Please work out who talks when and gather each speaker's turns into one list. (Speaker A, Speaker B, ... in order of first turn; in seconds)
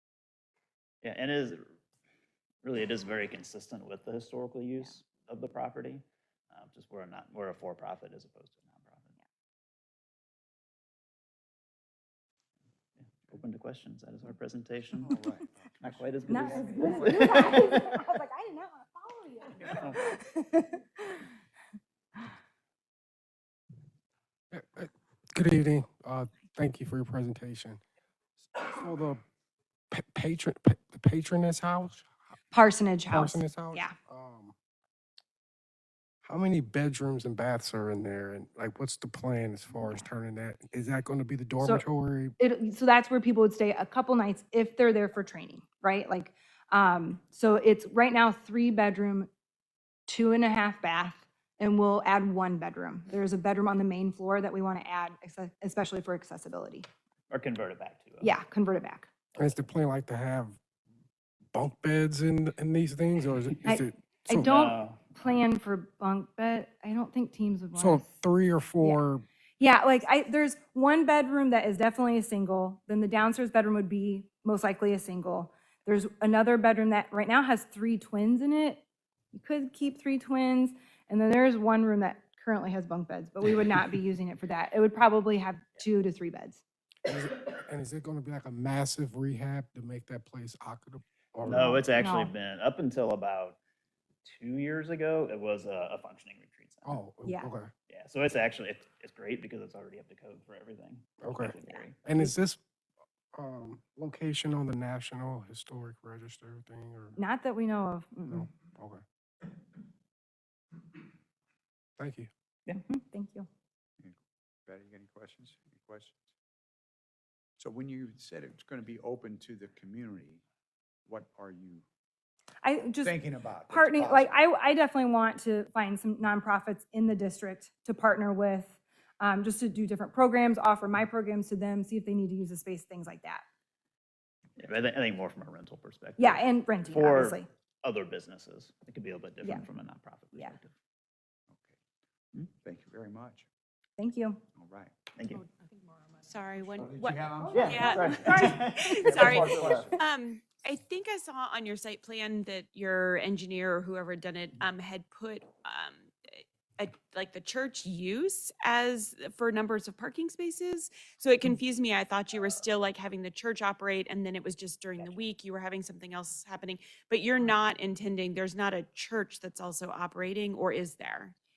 Speaker A: 1.0-1.7, 2.6-9.2, 13.0-15.1, 15.8-17.9, 57.3-58.4, 64.3-65.3, 91.4-93.6, 94.2-97.0, 97.9-102.0, 134.6-140.7, 145.1-145.4, 147.5-149.9
Speaker B: 15.0-17.2, 114.0-116.2, 117.6-120.4, 121.0-121.8, 123.0-124.4, 141.5-141.8, 142.5-143.5, 144.5-144.9, 146.8-148.5, 149.1-149.9
Speaker C: 16.3-21.3, 32.5-33.9, 41.6-41.8, 42.4-49.3, 50.1-56.8, 58.2-59.1, 63.6-68.1, 69.6-78.8, 79.3-86.6, 91.5-92.3, 97.2-97.5, 107.2-108.5, 112.8-113.5, 122.6-123.1, 123.7-133.4, 136.2-137.5, 144.0-144.4, 147.6-148.6
Speaker D: 24.5-27.8, 28.5-29.2, 29.9-32.0, 33.1-34.5, 36.2-42.4, 59.4-60.6, 61.5-64.5, 67.8-69.2, 87.0-91.8, 96.8-97.7, 101.2-102.6, 103.3-107.2, 108.3-109.0, 112.0-112.3
Speaker E: 146.2-171.3